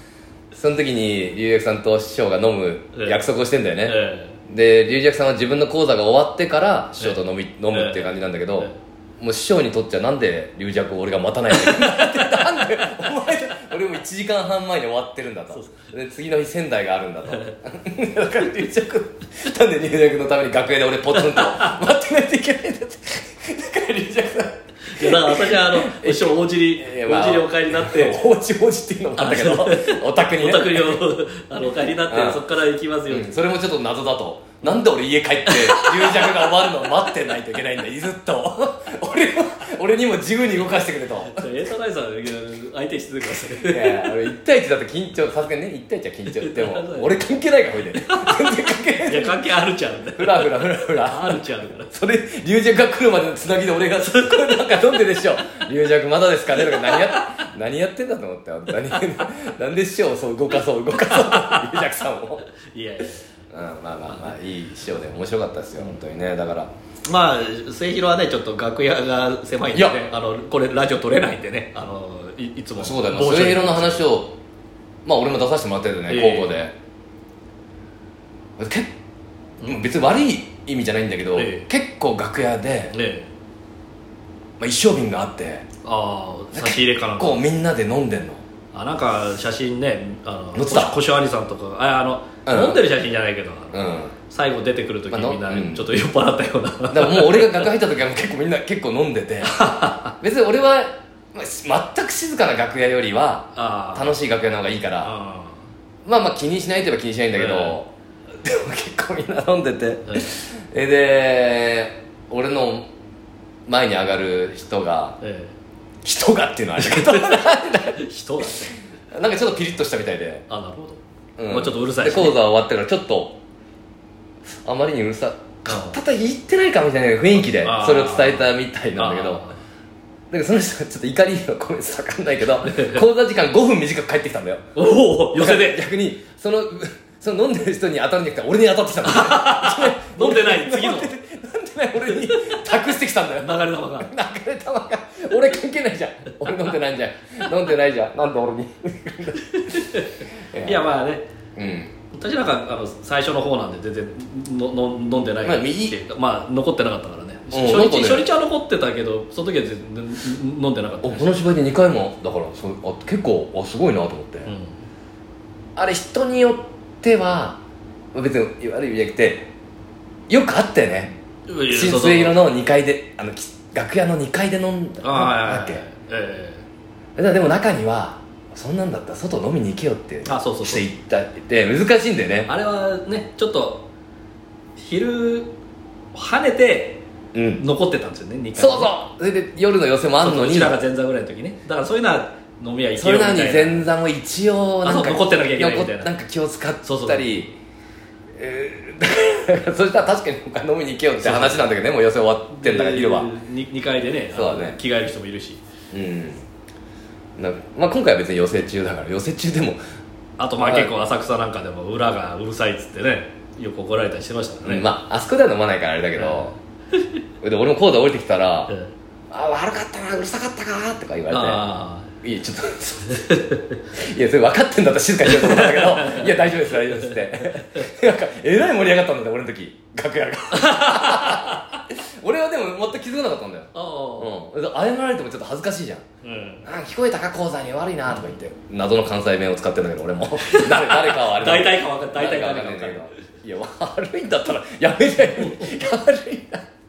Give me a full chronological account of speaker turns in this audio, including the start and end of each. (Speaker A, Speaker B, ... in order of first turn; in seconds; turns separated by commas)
Speaker A: 0.5-31.0, Speaker B: 3.0-3.2, Speaker B: 3.9-4.3, Speaker B: 7.7-8.8, Speaker B: 11.6-13.1, Speaker B: 15.5-15.8, Speaker B: 21.1-21.8, Speaker B: 24.9-28.2, Speaker B: 29.2-33.4, Speaker A: 32.1-32.4, Speaker A: 33.1-41.5, Speaker B: 35.5-36.9, Speaker B: 41.2-44.1, Speaker A: 43.6-49.5, Speaker B: 46.3-47.1, Speaker B: 48.0-48.5, Speaker B: 49.0-51.9, Speaker A: 50.2-62.5, Speaker B: 54.0-55.0, Speaker B: 56.6-57.3, Speaker B: 58.8-59.0, Speaker B: 60.9-61.8, Speaker B: 62.6-63.2, Speaker A: 63.5-66.7, Speaker B: 64.1-64.3, Speaker B: 67.1-74.0, Speaker A: 69.7-70.0, Speaker A: 72.8-74.4, Speaker A: 75.0-76.7, Speaker B: 76.1-76.6, Speaker A: 78.6-78.9, Speaker A: 79.6-82.9, Speaker B: 81.3-81.7, Speaker B: 82.9-83.3, Speaker A: 84.6-85.7, Speaker B: 85.8-87.4, Speaker A: 86.5-88.4, Speaker B: 88.7-97.7, Speaker A: 90.5-91.0, Speaker A: 92.5-92.8, Speaker A: 93.7-94.1, Speaker A: 95.1-95.9, Speaker A: 96.9-105.1, Speaker B: 99.5-100.1, Speaker B: 103.5-104.1, Speaker B: 105.0-105.6, Speaker A: 106.0-107.9, Speaker B: 107.3-107.8, Speaker A: 108.4-112.9, Speaker A: 113.7-115.2, Speaker B: 115.2-115.5, Speaker A: 116.0-118.6, Speaker B: 116.8-118.8, Speaker A: 119.1-120.5, Speaker B: 120.5-122.4, Speaker A: 121.4-123.4, Speaker A: 124.6-129.4, Speaker B: 125.7-125.9, Speaker B: 127.6-129.6, Speaker A: 130.3-134.6, Speaker B: 132.6-133.0, Speaker B: 134.8-135.8, Speaker A: 135.3-149.8, Speaker B: 139.0-141.1, Speaker B: 142.1-144.1, Speaker B: 149.4-151.3, Speaker A: 150.5-150.9, Speaker A: 151.6-151.9, Speaker B: 152.1-161.3, Speaker A: 155.4-156.0, Speaker A: 157.5-158.2, Speaker A: 161.0-164.5, Speaker B: 164.4-164.7, Speaker A: 165.8-167.6, Speaker A: 168.1-169.5, Speaker A: 170.3-171.1, Speaker B: 171.5-172.4, Speaker A: 171.7-175.8, Speaker B: 175.0-176.6, Speaker A: 177.2-182.5, Speaker B: 180.2-180.8, Speaker B: 182.5-183.8, Speaker B: 184.8-185.5, Speaker B: 186.1-187.0, Speaker A: 187.3-187.6, Speaker B: 187.6-188.9, Speaker A: 188.5-190.8, Speaker B: 190.2-193.9, Speaker A: 192.9-197.6, Speaker B: 194.8-196.1, Speaker B: 196.8-197.3, Speaker A: 198.3-203.3, Speaker B: 201.2-201.7, Speaker B: 202.6-205.6, Speaker A: 204.3-204.8, Speaker A: 205.9-206.4, Speaker A: 207.4-209.8, Speaker B: 210.4-214.9, Speaker A: 210.6-210.9, Speaker A: 214.6-216.5, Speaker B: 216.2-216.6, Speaker A: 217.4-218.7, Speaker A: 219.3-221.7, Speaker B: 221.3-222.1, Speaker A: 222.2-223.3, Speaker B: 223.1-223.8, Speaker A: 223.9-236.0, Speaker B: 225.2-226.4, Speaker B: 226.9-227.8, Speaker B: 230.5-231.8, Speaker B: 233.7-234.3, Speaker B: 236.2-236.7, Speaker A: 236.6-246.6, Speaker B: 238.1-238.4, Speaker B: 240.4-243.1, Speaker B: 245.4-245.7